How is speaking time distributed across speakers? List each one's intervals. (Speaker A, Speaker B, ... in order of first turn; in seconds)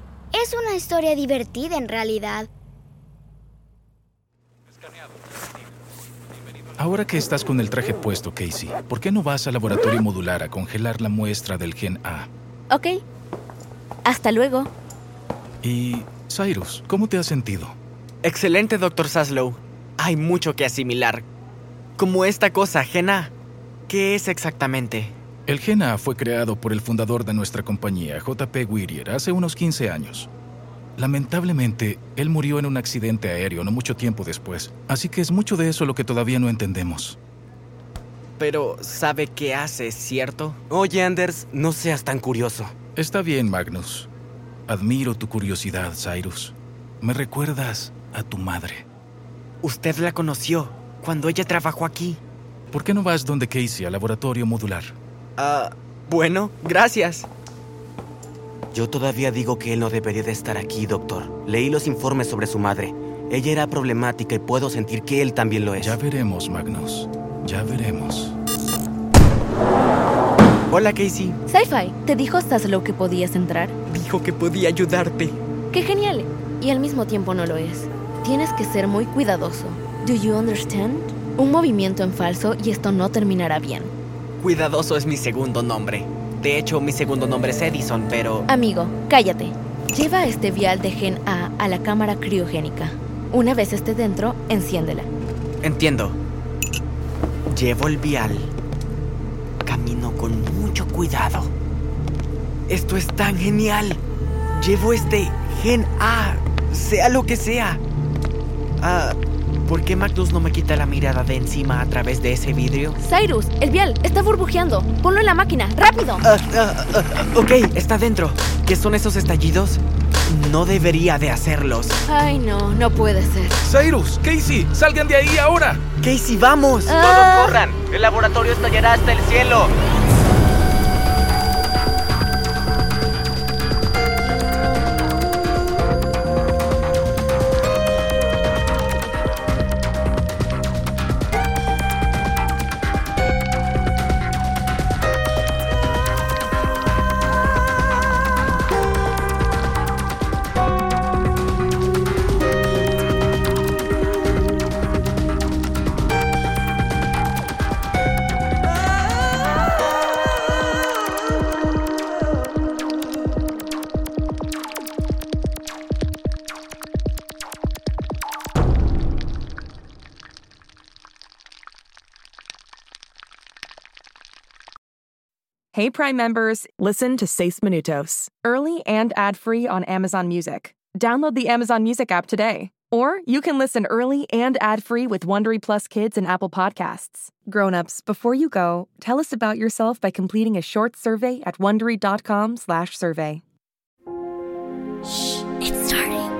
Speaker A: 0.3-2.5, 195.6-196.2
Speaker B: 6.8-12.3, 15.6-17.8, 25.5-30.3, 31.0-37.2, 42.9-44.1, 44.7-48.9, 52.7-55.0, 65.8-68.3, 123.6-125.8
Speaker C: 12.7-13.0, 14.0-14.7, 71.5-73.7, 75.7-83.9, 88.5-95.1, 113.0-116.2, 122.0-123.6, 126.8-127.6
Speaker D: 18.2-21.2, 22.0-23.3, 23.9-25.1, 38.4-40.6, 49.6-52.2, 55.4-57.3, 70.7-71.4, 73.9-75.4, 84.4-88.5, 95.6-96.2, 97.5-98.5, 99.7-101.5, 102.7-104.0, 104.5-107.8, 108.8-113.0, 116.2-122.0, 126.0-129.7
Speaker E: 40.7-42.7, 58.7-66.0
Speaker F: 175.7-193.4